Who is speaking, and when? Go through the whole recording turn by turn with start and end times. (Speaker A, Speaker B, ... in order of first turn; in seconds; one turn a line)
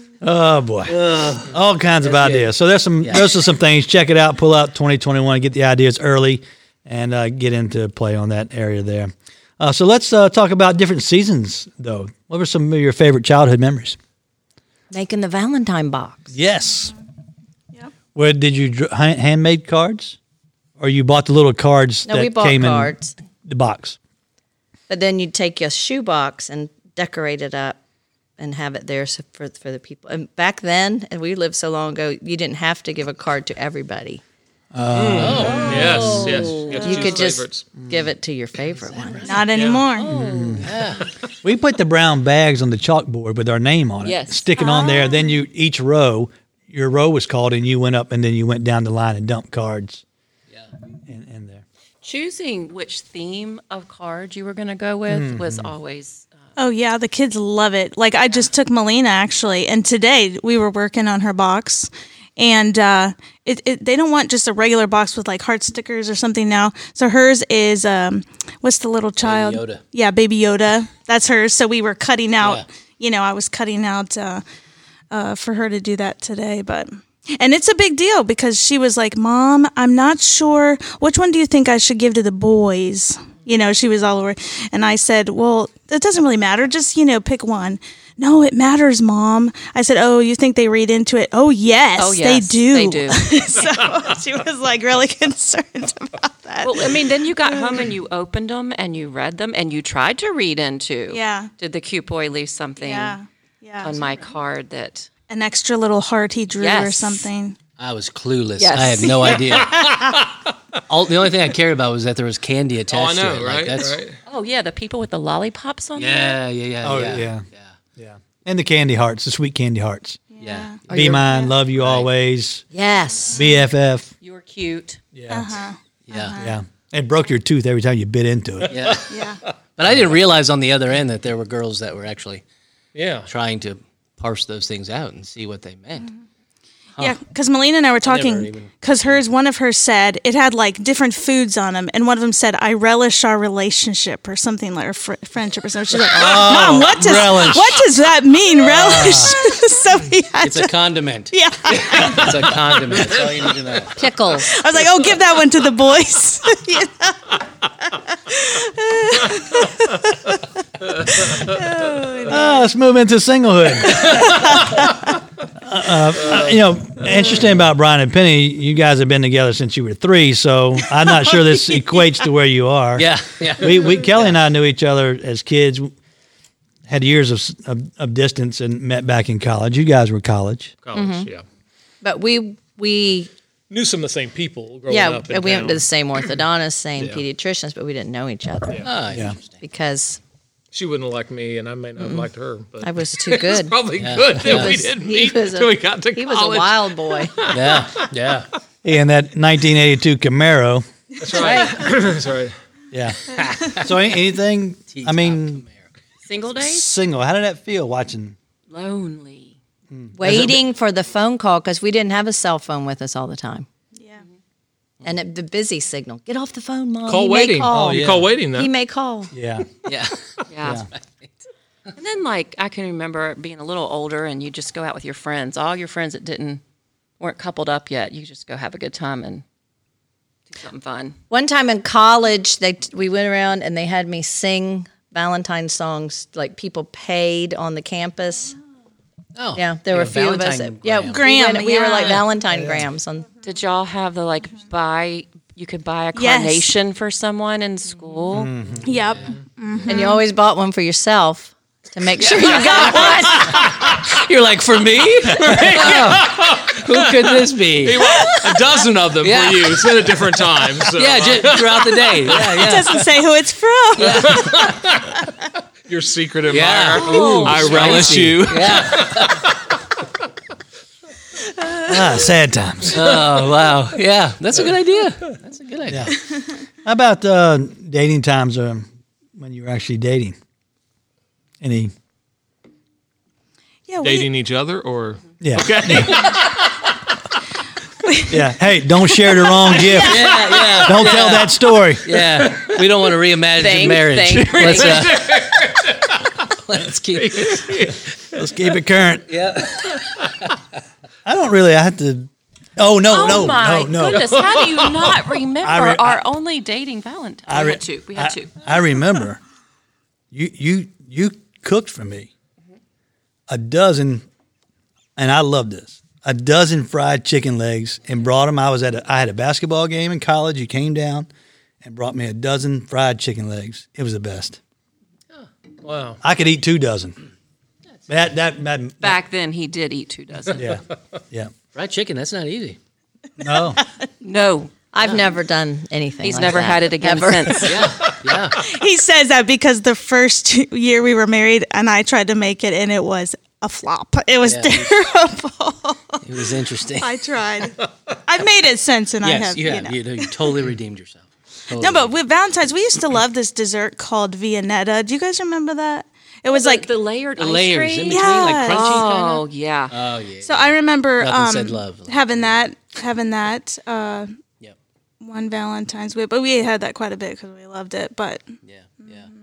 Speaker A: 0.2-14.0
Speaker B: 0.9-2.5
Speaker B: 3.0-3.3
Speaker C: 14.9-16.3
Speaker A: 16.3-16.9
Speaker A: 18.1-20.2
Speaker A: 20.8-24.0
Speaker C: 22.1-23.1
Speaker C: 24.9-27.8
Speaker C: 28.4-34.2
Speaker A: 34.7-35.7
Speaker D: 34.9-37.7
Speaker B: 35.1-36.7
Speaker C: 35.5-39.4
Speaker E: 36.3-37.0
Speaker A: 37.8-38.1
Speaker B: 38.9-39.4
Speaker F: 39.2-40.2
Speaker D: 39.5-39.9
Speaker E: 39.9-40.7
Speaker A: 40.1-40.7
Speaker B: 40.6-41.0
Speaker A: 41.4-50.0
Speaker E: 44.0-44.6
Speaker F: 44.5-45.3
Speaker A: 51.1-51.6
Speaker E: 52.0-56.4
Speaker A: 55.1-55.7
Speaker F: 56.6-74.4
Speaker B: 69.2-69.8
Speaker F: 75.1-97.8
Speaker E: 92.0-93.3
Speaker E: 96.6-103.2
Speaker F: 101.1-101.5
Speaker F: 102.8-104.2
Speaker E: 103.8-105.1
Speaker F: 105.3-107.6
Speaker E: 106.6-107.3
Speaker B: 107.8-109.9
Speaker E: 108.6-109.4
Speaker D: 109.4-110.5
Speaker B: 110.9-114.0
Speaker D: 112.9-114.2
Speaker E: 114.2-116.4
Speaker B: 116.0-117.8
Speaker A: 116.8-117.4
Speaker A: 118.0-120.2
Speaker F: 120.3-121.5
Speaker B: 120.4-120.8
Speaker A: 120.9-122.7
Speaker C: 120.9-121.2
Speaker E: 120.9-121.2
Speaker B: 121.7-122.1
Speaker C: 122.7-123.4
Speaker A: 123.3-124.1
Speaker E: 124.2-125.0
Speaker A: 125.1-125.5
Speaker F: 125.3-126.6
Speaker B: 126.1-126.4
Speaker A: 126.4-128.8
Speaker B: 128.7-129.1
Speaker D: 128.8-129.5
Speaker F: 129.1-129.4
Speaker B: 129.8-132.4
Speaker D: 132.9-133.3
Speaker B: 133.3-136.1
Speaker F: 137.0-150.8
Speaker B: 138.0-139.2
Speaker A: 146.1-147.8
Speaker A: 148.6-149.4
Speaker B: 150.4-154.0
Speaker F: 151.3-152.5
Speaker D: 152.9-153.4
Speaker C: 153.9-154.5
Speaker F: 154.4-157.3
Speaker F: 158.1-160.4
Speaker D: 159.3-159.7
Speaker D: 160.9-161.7
Speaker F: 161.1-162.5
Speaker A: 162.3-164.6
Speaker D: 163.9-164.8
Speaker F: 164.4-164.8
Speaker A: 165.6-175.9
Speaker D: 166.2-166.6
Speaker B: 173.0-174.3
Speaker A: 176.9-180.7
Speaker D: 180.8-181.4
Speaker C: 180.9-181.3
Speaker C: 182.0-183.3
Speaker D: 183.7-185.8
Speaker C: 184.9-189.0
Speaker B: 188.8-189.6
Speaker A: 189.1-189.4
Speaker C: 189.6-190.2
Speaker D: 190.7-198.1
Speaker C: 192.0-192.3
Speaker C: 192.8-193.8
Speaker B: 194.0-194.8
Speaker C: 194.4-197.3
Speaker B: 197.5-198.5
Speaker A: 198.8-200.8
Speaker D: 201.2-202.6
Speaker C: 201.3-201.9
Speaker A: 202.9-205.6
Speaker B: 203.3-203.9
Speaker B: 204.9-205.9
Speaker E: 206.2-206.9
Speaker A: 206.6-208.3
Speaker E: 208.7-209.6
Speaker A: 209.9-210.6
Speaker C: 210.1-213.7
Speaker F: 213.9-214.2
Speaker C: 215.0-219.3
Speaker D: 217.1-218.7
Speaker A: 217.7-218.3
Speaker A: 219.3-219.7
Speaker B: 219.8-221.3
Speaker E: 220.5-220.8
Speaker E: 221.9-226.6
Speaker E: 227.2-229.4
Speaker E: 230.5-231.2
Speaker C: 231.3-238.5
Speaker B: 239.3-241.2
Speaker C: 239.6-243.3
Speaker F: 241.1-242.2
Speaker A: 242.5-242.9
Speaker E: 243.4-248.5
Speaker F: 246.1-246.7
Speaker A: 248.3-248.9
Speaker F: 248.8-250.2
Speaker C: 249.9-253.5
Speaker E: 252.2-253.5
Speaker B: 252.2-258.6
Speaker D: 255.2-262.6
Speaker B: 259.2-260.3
Speaker B: 260.8-263.1
Speaker F: 262.5-264.5
Speaker B: 264.0-264.9
Speaker D: 264.1-265.1
Speaker D: 265.9-269.6
Speaker B: 266.5-269.5
Speaker E: 267.0-268.2
Speaker F: 271.6-272.1
Speaker A: 271.9-273.2
Speaker B: 272.9-276.1
Speaker A: 275.9-276.1
Speaker A: 276.8-280.4
Speaker A: 281.6-281.9
Speaker F: 283.9-284.3
Speaker D: 284.0-286.9
Speaker A: 285.4-286.3
Speaker F: 288.0-288.4
Speaker A: 288.3-292.1
Speaker F: 289.5-290.6
Speaker B: 289.9-295.6
Speaker C: 293.6-294.9
Speaker D: 294.4-296.3
Speaker B: 296.6-297.9
Speaker D: 297.1-298.4
Speaker A: 298.3-299.3
Speaker B: 299.3-300.6
Speaker A: 301.2-304.4
Speaker E: 303.1-308.5
Speaker D: 304.3-305.1
Speaker A: 305.6-306.2
Speaker A: 307.5-309.4
Speaker A: 310.3-312.3
Speaker A: 313.5-314.2
Speaker A: 315.1-321.3
Speaker A: 321.8-324.6
Speaker D: 325.8-326.2
Speaker A: 326.2-327.2
Speaker A: 328.1-329.2
Speaker E: 329.0-330.7
Speaker A: 330.6-331.5
Speaker B: 331.7-332.8
Speaker A: 333.4-333.8
Speaker E: 334.2-334.7
Speaker C: 334.9-337.8
Speaker E: 336.2-337.8
Speaker B: 337.6-338.6
Speaker D: 338.0-338.5
Speaker F: 338.6-346.2
Speaker B: 344.4-344.9
Speaker B: 346.2-347.2
Speaker F: 347.0-350.5
Speaker B: 349.2-352.1
Speaker F: 351.7-356.9
Speaker E: 356.5-359.9
Speaker B: 357.4-362.5
Speaker F: 358.1-358.9
Speaker F: 360.4-364.4
Speaker F: 365.2-368.5
Speaker B: 368.6-369.3